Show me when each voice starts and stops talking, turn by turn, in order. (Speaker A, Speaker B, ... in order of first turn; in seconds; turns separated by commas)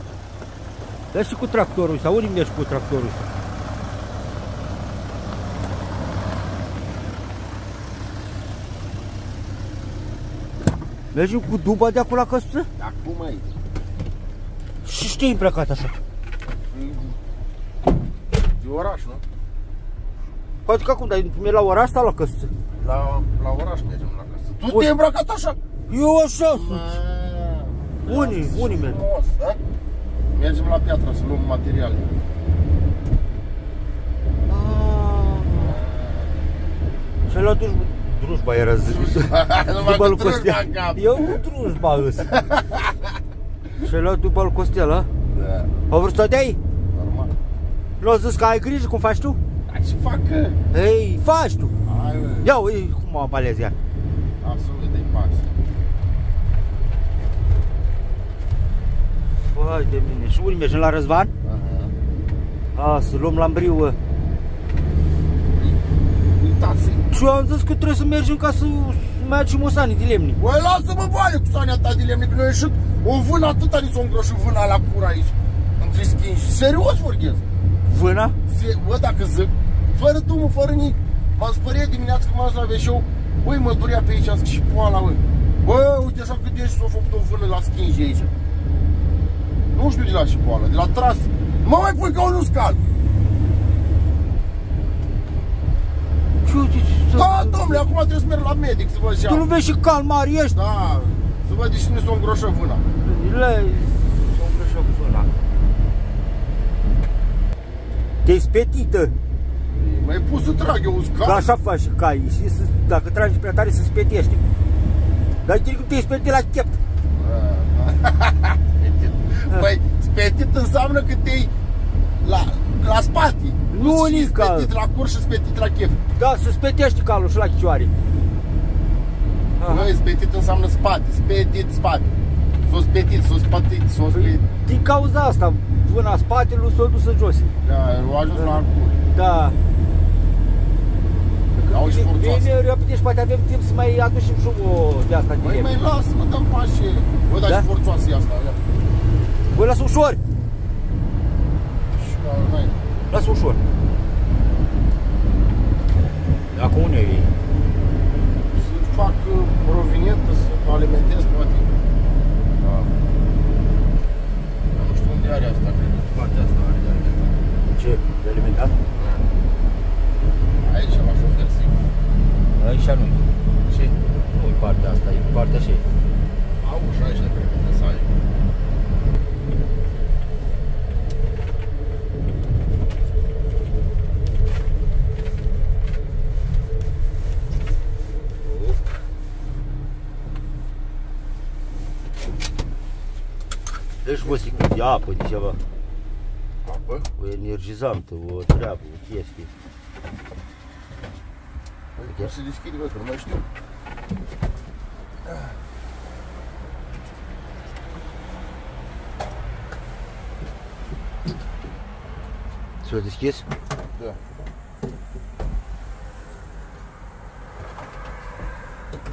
Speaker A: 1.1-3.2, Speaker A: 11.1-12.7, Speaker B: 12.8-13.5, Speaker A: 14.8-16.0, Speaker B: 16.7-17.2, Speaker B: 18.6-19.2, Speaker A: 20.7-22.5, Speaker B: 22.8-25.6, Speaker A: 25.9-27.0, Speaker B: 26.5-29.6, Speaker A: 28.0-29.0, Speaker B: 30.3-32.1, Speaker A: 34.5-35.8, Speaker B: 35.7-36.2, Speaker A: 37.3-42.5, Speaker B: 38.9-41.4, Speaker B: 42.3-43.1, Speaker A: 43.8-45.1, Speaker B: 45.3-45.7, Speaker A: 45.9-46.6, Speaker B: 46.9-47.3, Speaker A: 48.0-49.4, Speaker B: 49.7-50.6, Speaker A: 50.7-51.8, Speaker B: 51.8-52.5, Speaker A: 52.4-53.8, Speaker B: 54.4-55.5, Speaker A: 59.5-61.3, Speaker B: 61.4-61.9, Speaker A: 62.8-64.0, Speaker B: 65.5-65.8, Speaker B: 66.3-67.1, Speaker A: 67.1-70.4, Speaker B: 70.4-77.5, Speaker A: 77.9-78.4, Speaker B: 78.5-88.3, Speaker B: 89.7-92.9, Speaker A: 96.5-97.9, Speaker B: 97.1-99.5, Speaker A: 99.2-100.6, Speaker B: 100.5-102.8, Speaker A: 103.0-105.3, Speaker A: 108.2-109.1, Speaker B: 109.7-111.5, Speaker A: 111.2-114.4, Speaker A: 115.5-116.8, Speaker B: 117.2-121.5, Speaker B: 122.2-126.0, Speaker A: 123.7-124.7, Speaker A: 126.2-128.0, Speaker A: 129.6-129.9, Speaker B: 129.6-134.5, Speaker A: 134.1-137.5, Speaker B: 137.6-139.0, Speaker A: 139.1-139.6, Speaker A: 141.5-145.8, Speaker B: 141.7-142.5, Speaker B: 145.4-148.7, Speaker A: 149.5-150.2, Speaker B: 151.9-152.8, Speaker A: 153.1-153.6, Speaker A: 156.5-157.3, Speaker B: 158.4-161.7, Speaker B: 162.6-162.9, Speaker B: 164.7-167.3, Speaker A: 167.7-168.8, Speaker B: 168.9-169.4, Speaker B: 170.6-171.8, Speaker A: 172.6-173.3, Speaker B: 173.7-173.9, Speaker A: 174.3-175.8, Speaker B: 176.6-178.1, Speaker A: 188.4-188.8, Speaker A: 194.0-195.6, Speaker B: 196.6-197.1, Speaker A: 197.2-199.5, Speaker B: 201.9-203.5, Speaker A: 212.8-213.5